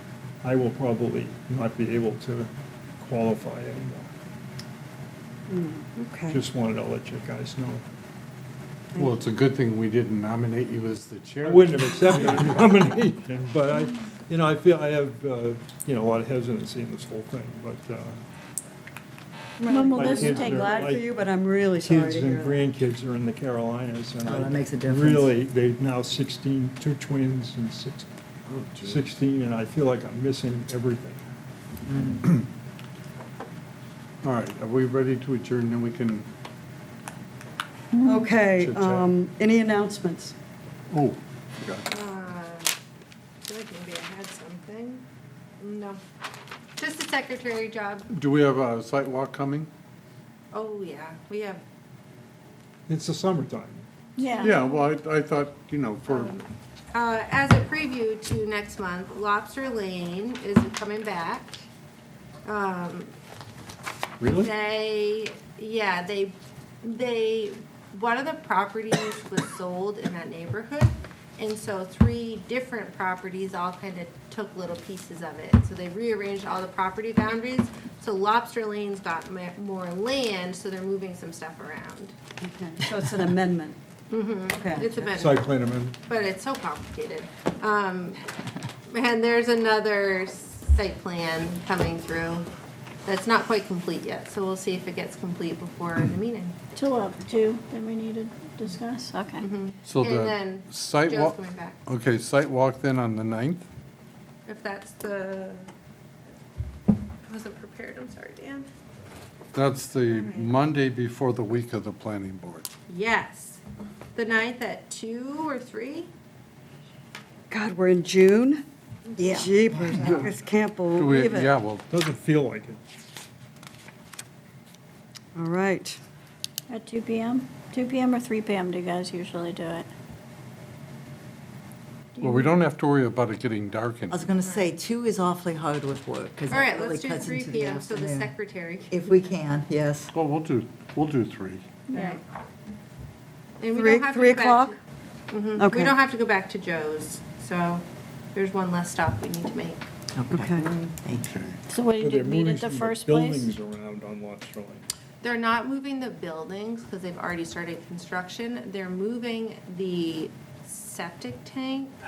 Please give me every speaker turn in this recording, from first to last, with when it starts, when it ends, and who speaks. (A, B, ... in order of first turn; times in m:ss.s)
0:00.4-0:04.2 A
0:05.5-0:06.4 B
0:06.3-0:07.8 A
0:08.9-0:09.2 B
0:09.0-0:12.6 C
0:11.4-0:18.2 A
0:19.6-0:22.7 B
0:19.7-0:20.8 D
0:19.9-0:21.1 A
0:21.8-0:28.1 A
0:24.2-0:25.4 E
0:28.5-0:29.0 C
0:28.8-0:31.2 A
0:31.9-0:32.3 E
0:34.2-0:36.3 C
0:38.0-0:38.3 D
0:38.0-0:40.4 B
0:38.6-0:39.1 C
0:40.9-0:41.9 C
0:41.9-0:42.7 F
0:43.4-0:45.0 F
0:45.6-0:46.0 F
0:46.8-0:48.1 F
0:48.1-0:49.7 C
0:50.5-0:51.6 F
0:52.9-0:53.9 A
0:54.2-0:54.6 D
0:54.4-0:56.3 C
0:56.1-1:01.6 F
1:02.5-1:03.1 F
1:04.2-1:04.5 A
1:04.4-1:22.2 F
1:22.4-1:23.8 B
1:24.1-1:25.5 F
1:24.6-1:25.0 B
1:25.1-1:26.0 A
1:26.1-1:28.2 F
1:28.9-1:32.5 F
1:33.1-1:36.6 F
1:36.8-1:39.5 D
1:39.4-1:41.8 F
1:39.8-1:43.6 C
1:44.5-1:45.7 F
1:47.2-1:48.7 F
1:49.5-1:52.7 C
1:50.1-1:50.5 F
1:52.9-1:53.6 F
1:54.2-1:56.1 F
1:57.5-1:58.6 B
1:59.2-2:00.3 E
1:59.2-2:01.6 B
2:00.0-2:00.3 C
2:00.9-2:01.8 C
2:01.9-2:02.8 A
2:05.4-2:06.0 B
2:06.7-2:09.9 D
2:12.2-2:12.6 D
2:12.2-2:14.3 C
2:14.1-2:18.3 E
2:14.4-2:14.7 F
2:16.5-2:19.4 F
2:18.9-2:20.1 E
2:20.1-2:21.7 C
2:21.9-2:22.2 D
2:21.9-2:22.2 F
2:23.6-2:24.8 F
2:23.7-2:24.7 B
2:25.3-2:29.8 F
2:25.6-2:26.0 B
2:30.2-2:31.3 E
2:30.3-2:30.7 B
2:31.2-2:31.6 C
2:31.7-2:33.5 D
2:31.9-2:34.9 A
2:35.2-2:41.9 F